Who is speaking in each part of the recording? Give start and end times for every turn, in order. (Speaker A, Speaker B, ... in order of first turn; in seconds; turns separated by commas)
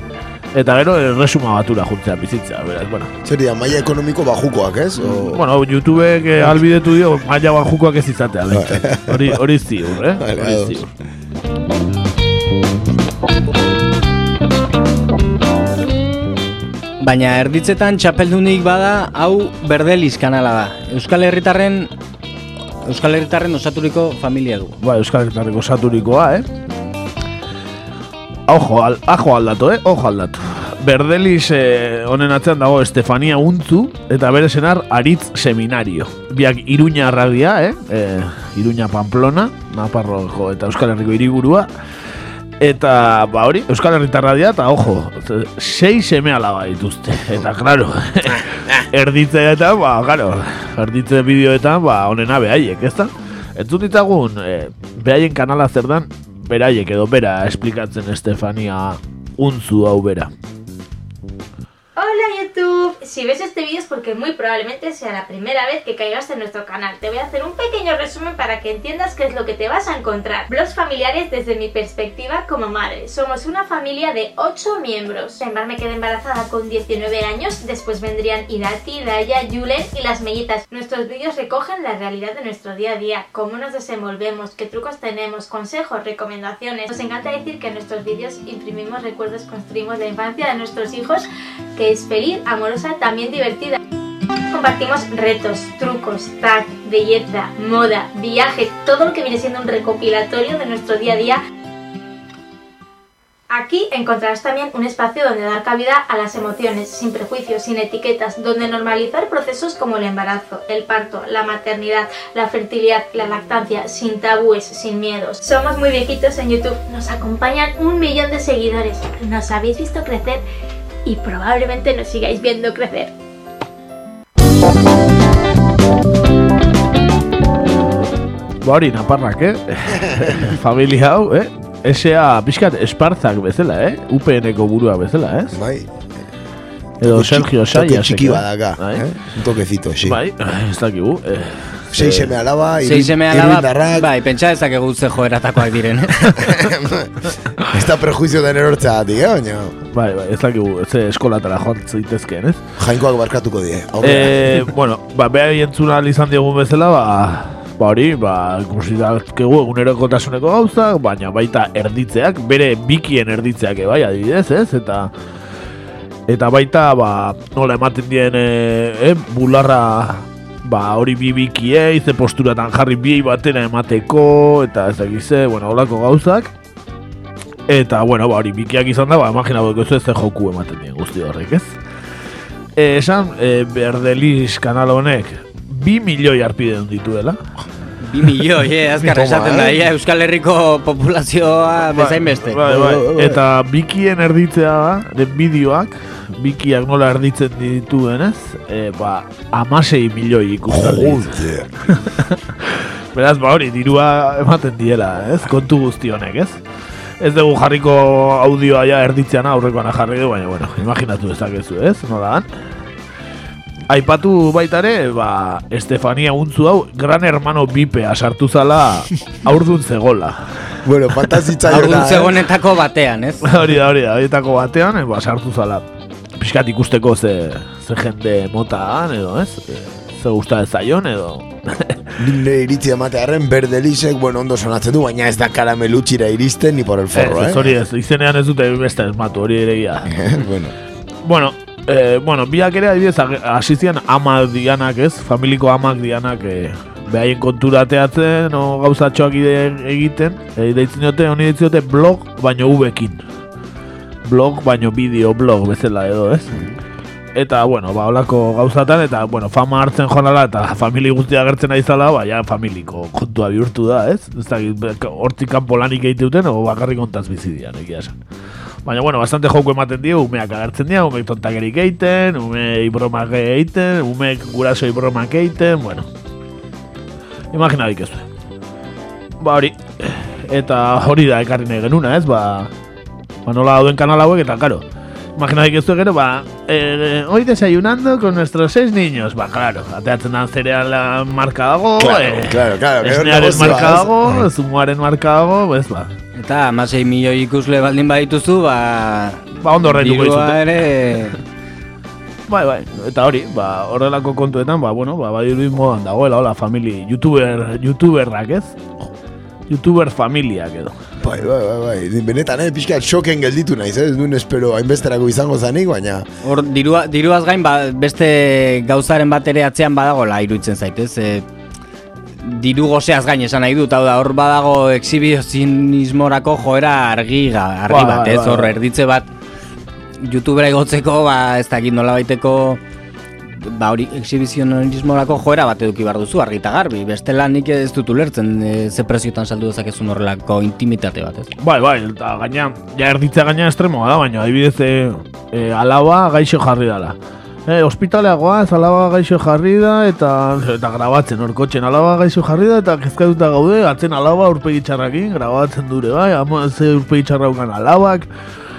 Speaker A: 0.5-3.1, Speaker B: 3.2-5.4, Speaker A: 5.0-10.9, Speaker B: 8.5-9.4, Speaker B: 10.1-10.8, Speaker C: 17.0-21.9, Speaker C: 22.8-24.8, Speaker A: 24.8-26.5, Speaker A: 28.5-41.7, Speaker A: 42.6-60.3, Speaker D: 62.0-93.8, Speaker D: 94.5-101.4, Speaker D: 103.5-120.4, Speaker D: 121.0-123.1, Speaker A: 128.6-135.5, Speaker B: 135.5-135.9, Speaker B: 137.0-140.2, Speaker A: 137.0-139.0, Speaker A: 140.0-142.3, Speaker B: 141.9-144.1, Speaker C: 142.8-146.3, Speaker B: 146.2-147.1, Speaker B: 147.7-149.7, Speaker A: 149.9-152.6, Speaker B: 152.8-154.7, Speaker A: 154.0-165.1, Speaker A: 166.3-176.5, Speaker A: 177.7-181.8, Speaker A: 182.8-187.4, Speaker C: 188.0-192.6, Speaker B: 189.1-189.8, Speaker A: 191.9-206.6, Speaker B: 192.6-193.4, Speaker B: 200.7-201.7, Speaker A: 207.2-212.5, Speaker A: 213.9-220.8, Speaker B: 220.8-222.4, Speaker C: 221.7-223.4, Speaker A: 223.4-225.8, Speaker A: 226.4-232.0, Speaker B: 232.2-237.8, Speaker A: 237.1-240.1, Speaker B: 240.1-240.7, Speaker A: 241.2-253.2, Speaker A: 254.2-256.6, Speaker A: 257.3-268.2, Speaker A: 268.8-276.1, Speaker A: 277.5-278.2, Speaker A: 279.4-282.7, Speaker A: 283.4-284.8, Speaker A: 285.4-296.1, Speaker B: 292.0-294.4, Speaker C: 296.3-301.4, Speaker A: 299.6-300.6, Speaker A: 302.5-308.8, Speaker A: 309.7-311.0, Speaker B: 311.2-316.2, Speaker C: 316.4-321.4, Speaker C: 322.4-329.3, Speaker A: 327.9-328.8, Speaker C: 330.2-332.8, Speaker C: 333.5-341.5, Speaker A: 341.6-347.1, Speaker A: 347.7-358.3